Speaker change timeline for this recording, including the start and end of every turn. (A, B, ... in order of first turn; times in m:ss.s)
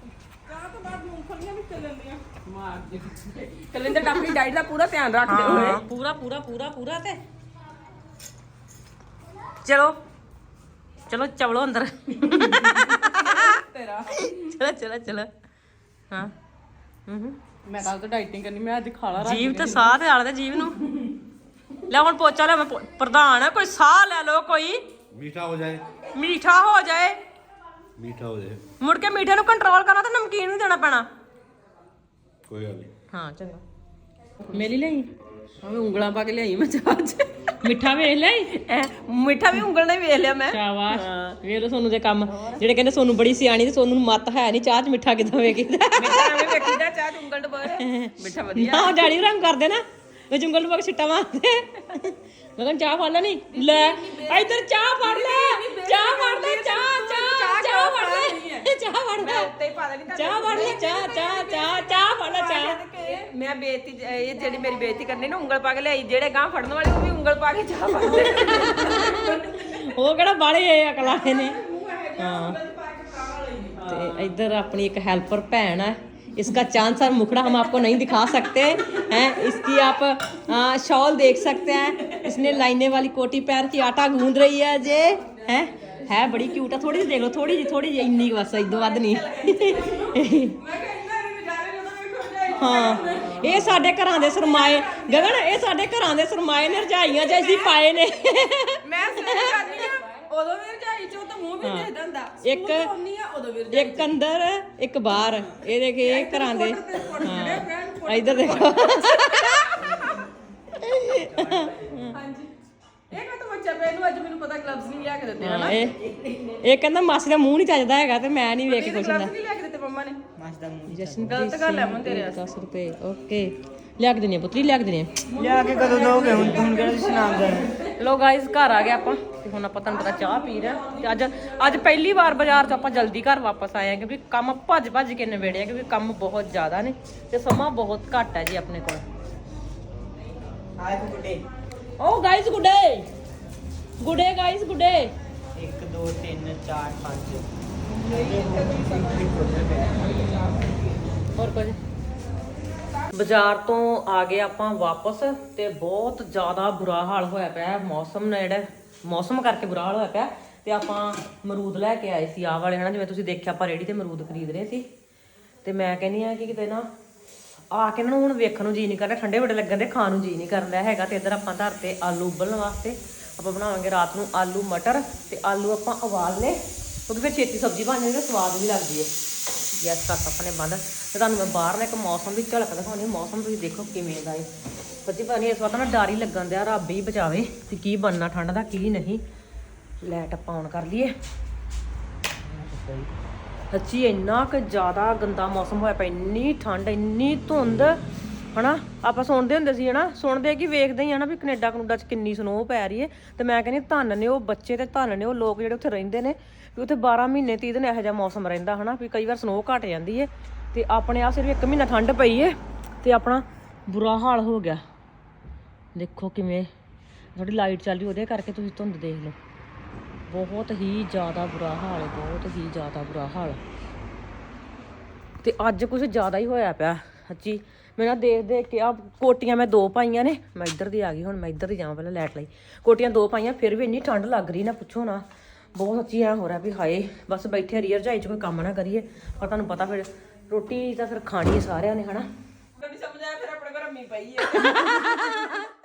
0:00.5-0:05.8 A
0:05.2-0:07.2 B
0:09.6-0:10.0 B
0:11.1-0:13.6 B
0:12.5-0:14.4 A
0:14.1-0:15.3 B
0:17.1-0:17.4 B
0:17.6-0:19.9 A
0:19.2-0:20.8 B
0:21.9-0:24.8 B
0:25.1-0:25.8 C
0:26.1-0:27.2 B
0:28.0-0:28.6 C
0:28.8-0:31.1 B
0:32.5-0:32.9 C
0:33.1-0:33.6 B
0:34.5-0:35.1 B
0:35.6-0:37.3 A
0:37.6-0:38.6 B
0:38.6-0:41.0 A
0:40.5-0:46.8 B
0:46.0-0:49.0 A
0:47.8-0:59.5 B
0:53.5-0:58.7 A
0:59.2-1:09.7 A
1:00.1-1:03.2 B
1:08.0-1:11.6 B
1:11.0-1:14.3 A
1:12.2-1:12.6 B
1:13.8-1:30.5 B
1:22.0-1:22.5 A
1:25.2-1:26.3 A
1:28.6-1:35.6 A
1:32.6-1:39.9 B
1:36.9-1:37.8 A
1:38.8-1:44.1 A
1:41.6-1:41.9 B
1:42.4-1:42.9 B
1:43.7-1:49.7 B
1:46.0-1:48.9 A
1:49.8-1:50.1 A
1:50.7-1:52.2 B
1:52.1-1:52.5 A
1:53.1-1:56.6 A
1:55.4-1:55.9 B
1:56.6-1:59.3 B
1:58.6-2:00.2 A
2:00.4-2:00.9 D
2:00.9-2:05.2 B
2:00.9-2:02.5 A
2:05.3-2:08.0 A
2:05.4-2:07.6 D
2:05.9-2:06.7 B
2:08.0-2:19.0 B
2:09.8-2:12.6 A
2:20.8-2:21.4 D
2:22.0-2:23.1 B
2:24.0-2:25.1 B
2:25.6-2:27.4 D
2:27.8-2:31.0 A
2:28.2-2:28.7 C
2:29.1-2:29.6 D
2:29.5-2:29.8 C
2:31.4-2:31.8 B
2:33.1-2:44.8 B
2:45.6-2:46.9 B
2:47.7-2:59.1 B
2:59.7-3:04.5 B
3:05.0-3:09.2 B
3:10.0-3:11.1 B
3:12.6-3:13.0 B
3:13.7-3:18.0 B
3:18.5-3:34.8 B
3:35.9-3:36.7 B
3:37.3-3:39.3 B
3:40.3-3:43.6 B
3:45.4-4:02.3 B
4:02.8-4:04.9 A
4:04.7-4:05.5 B